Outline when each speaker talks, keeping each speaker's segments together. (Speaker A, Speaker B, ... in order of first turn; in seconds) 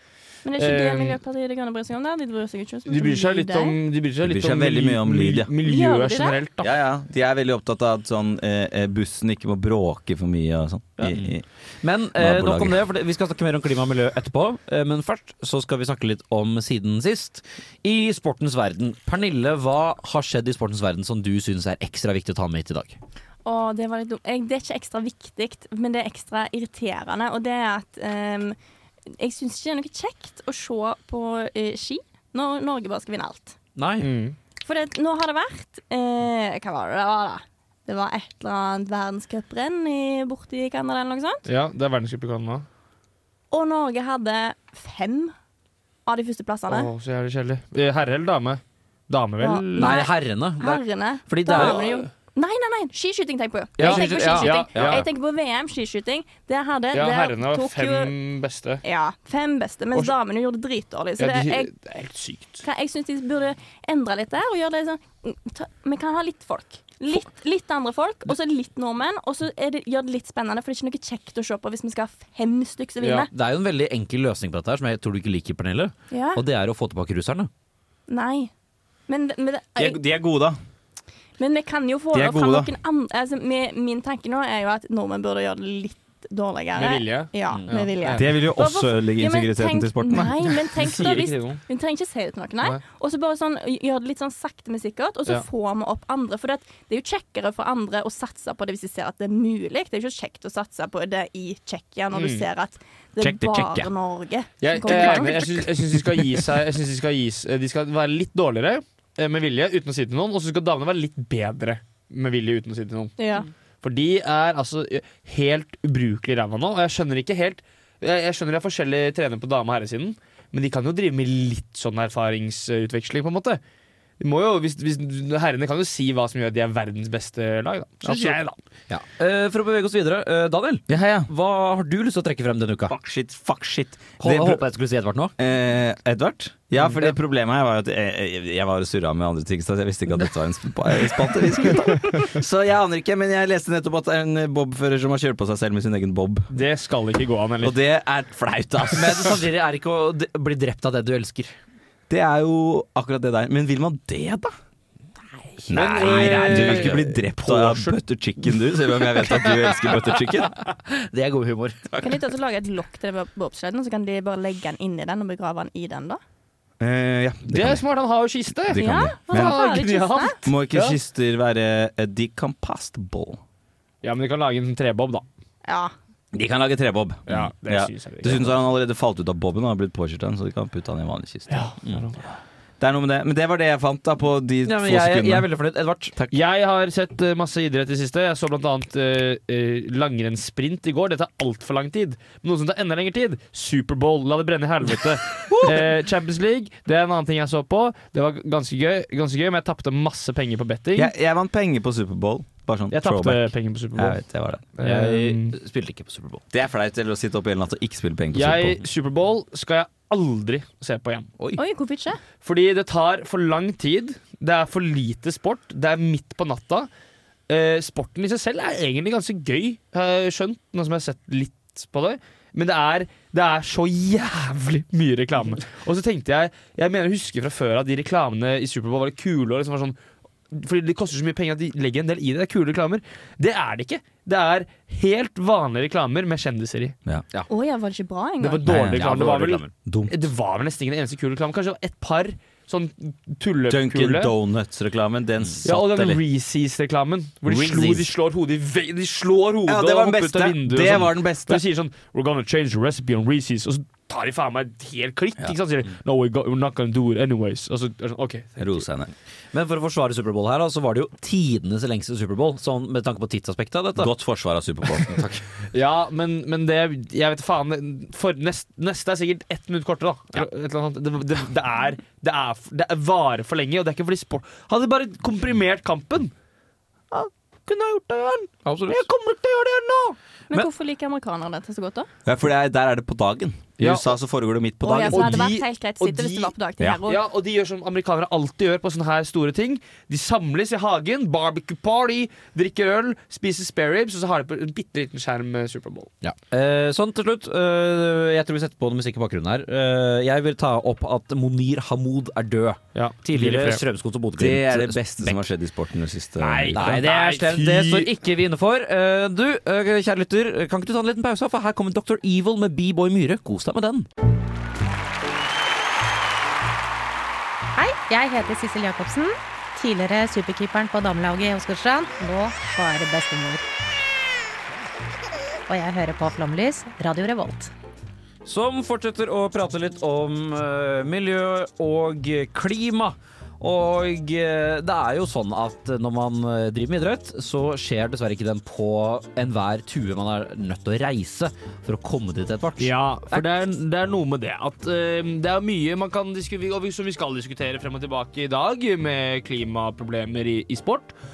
Speaker A: 0.5-3.8, 5.6-6.4, 23.4-28.6, 29.1-33.6, 34.6-41.4, 43.5-45.4, 46.1-46.9, 49.4-58.1, 58.8-61.7, 62.6-73.3, 76.1-76.4, 78.1-78.5, 79.1-80.0, 81.4-105.7, 113.2-113.5, 162.0-166.2, 168.8-170.4, 175.7-175.9, 211.6-212.2, 237.5-238.7, 280.5-282.1, 284.8-287.2
Speaker B: 0.6-1.2, 2.9-6.7, 34.0-34.4, 41.5-42.6, 46.7-50.0, 51.5-52.0, 53.8-55.1, 56.9-58.8, 61.2-62.6, 73.0-73.3, 86.8-88.3, 90.7-91.6, 102.1-102.5, 104.6-113.2, 113.8-123.6, 124.2-128.6, 146.5-147.8, 155.7-157.1, 167.5-171.0, 174.0-175.2, 177.3-178.6, 181.5-182.4, 186.3-201.1, 202.9-204.2, 204.7-205.6, 208.3-211.3, 212.4-216.9, 217.5-230.0, 230.5-236.9, 238.4-244.3, 245.6-258.8, 265.7-276.3, 277.1-280.2, 283.8-284.1, 285.1-286.5, 287.1-296.1, 302.9-303.8, 306.4-308.1, 342.8-351.1
Speaker C: 4.2-5.5, 6.6-11.4, 12.2-12.8, 79.8-80.6, 82.1-82.7, 88.1-90.4, 130.9-131.3, 132.9-134.6, 135.4-146.5, 147.6-149.4, 152.1-154.5, 155.7-160.6, 166.8-167.8, 168.7-173.4, 176.3-181.7, 182.8-185.5, 195.5-195.9, 200.9-204.6, 206.5-208.8, 238.6-239.1, 239.8-240.2, 243.7-246.2, 249.7-251.6, 258.6-259.1, 264.0-265.2, 282.2-285.5, 304.4-307.0
Speaker D: 11.0-23.0, 33.8-34.1, 49.8-51.9, 53.8-55.0, 73.3-77.5, 87.5-87.8, 103.2-103.9, 128.1-128.3, 128.9-132.9, 134.2-135.3, 148.9-151.5, 155.7-157.9, 160.7-161.8, 184.6-186.2, 204.8-206.4, 238.9-239.7, 247.5-248.1, 259.5-264.1, 265.0-265.4, 278.6-279.0, 296.2-305.4, 306.7-314.1, 328.5-343.5
Speaker E: 317.8-323.6, 325.7-327.7